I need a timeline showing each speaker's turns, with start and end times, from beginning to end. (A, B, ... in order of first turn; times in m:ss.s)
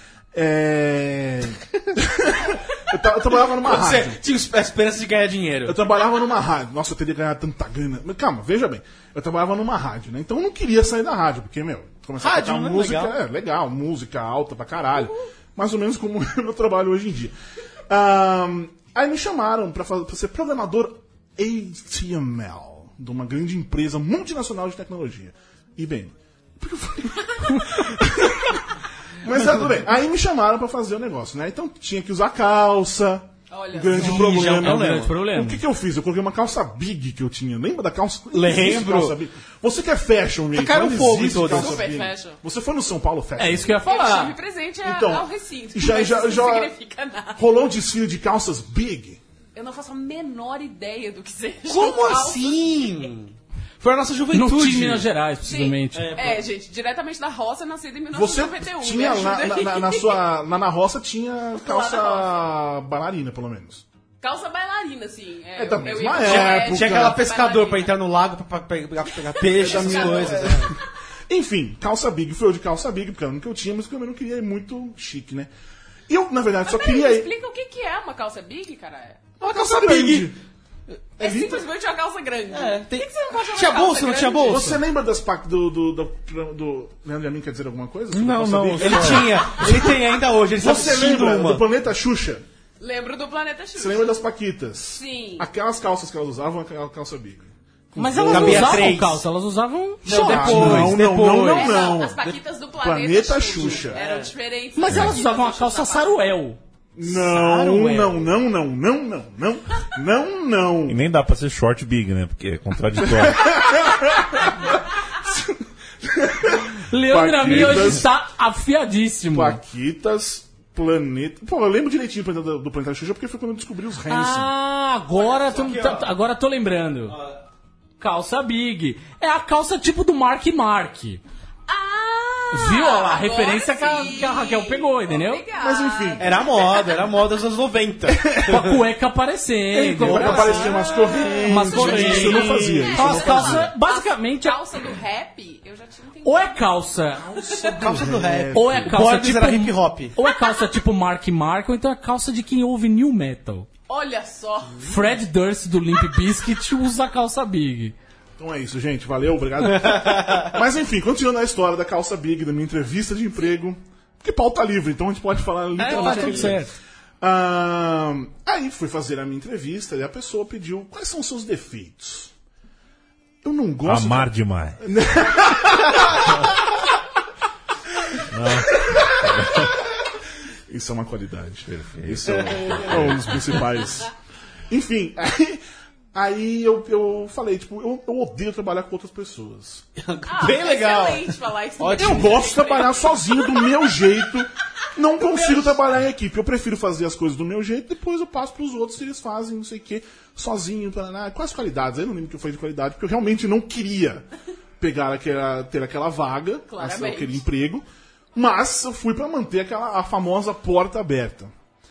0:00.3-0:04.2 A
0:03.5-0:05.8 B
0:05.6-0:17.3 A
0:12.2-0:13.2 B
0:17.9-0:43.8 A
0:33.5-0:34.1 C
0:33.9-0:35.1 B
0:34.0-0:35.6 D
0:38.3-0:39.2 B
0:40.5-0:41.8 B
0:41.3-0:42.4 C
0:43.4-0:44.4 D
0:43.8-0:47.5 C
0:44.8-0:46.7 A
0:47.4-0:49.2 A
0:49.5-0:53.1 C
0:51.7-0:55.1 B
0:54.3-0:56.1 D
0:55.4-1:00.2 C
0:55.9-0:56.4 B
0:58.1-1:03.8 A
1:01.6-1:02.5 C
1:04.2-1:07.9 C
1:05.6-1:07.2 A
1:06.2-1:10.7 B
1:09.3-1:10.7 C
1:09.4-1:15.5 A
1:16.1-1:17.3 A
1:16.7-1:19.2 C
1:19.4-1:20.3 B
1:19.4-1:20.4 A
1:21.2-1:21.6 A
1:21.2-1:24.8 C
1:22.5-1:24.8 B
1:24.4-1:32.4 A
1:28.1-1:31.6 B
1:28.8-1:29.3 E
1:32.8-1:34.2 C
1:33.8-1:39.0 A
1:34.9-1:35.5 C
1:38.0-1:41.0 D
1:38.3-1:39.2 B
1:40.0-1:42.2 A
1:40.0-1:42.4 B
1:41.3-1:46.2 C
1:42.8-1:44.0 A
1:43.6-1:44.3 B
1:44.8-1:48.1 D
1:44.9-1:45.2 E
1:46.9-1:51.0 A
1:50.9-1:53.6 E
1:53.0-1:58.0 A
1:56.8-1:59.6 D
1:59.3-2:04.5 A
2:04.1-2:07.2 D
2:05.2-2:06.1 B
2:07.1-2:07.4 B
2:08.0-2:11.2 D
2:11.7-2:17.1 C
2:12.5-2:15.4 D
2:15.6-2:16.3 A
2:16.2-2:18.8 B
2:18.1-2:18.7 A
2:18.4-2:20.8 D
2:19.7-2:23.7 A
2:20.0-2:22.9 B
2:20.2-2:26.6 C
2:21.4-2:24.6 D
2:26.2-2:28.0 D
2:27.3-2:27.8 C
2:27.5-2:29.0 A
2:27.8-2:30.1 B
2:28.5-2:33.7 D
2:33.9-2:35.0 C
2:34.8-2:37.9 D
2:38.4-2:46.6 A
2:39.7-2:40.5 B
2:45.8-2:46.8 D
2:45.9-2:46.5 C
2:47.2-2:52.3 A
2:53.4-2:56.6 A
2:53.8-2:54.8 E
2:58.3-2:59.7 E
2:58.7-2:59.7 A
3:00.7-3:04.1 A
3:01.7-3:03.4 E
3:02.3-3:03.1 B
3:04.7-3:05.6 A
3:06.1-3:09.8 A
3:10.0-3:12.4 B
3:10.3-3:13.7 C
3:11.9-3:24.2 A
3:24.8-3:31.5 A
3:26.7-3:27.4 C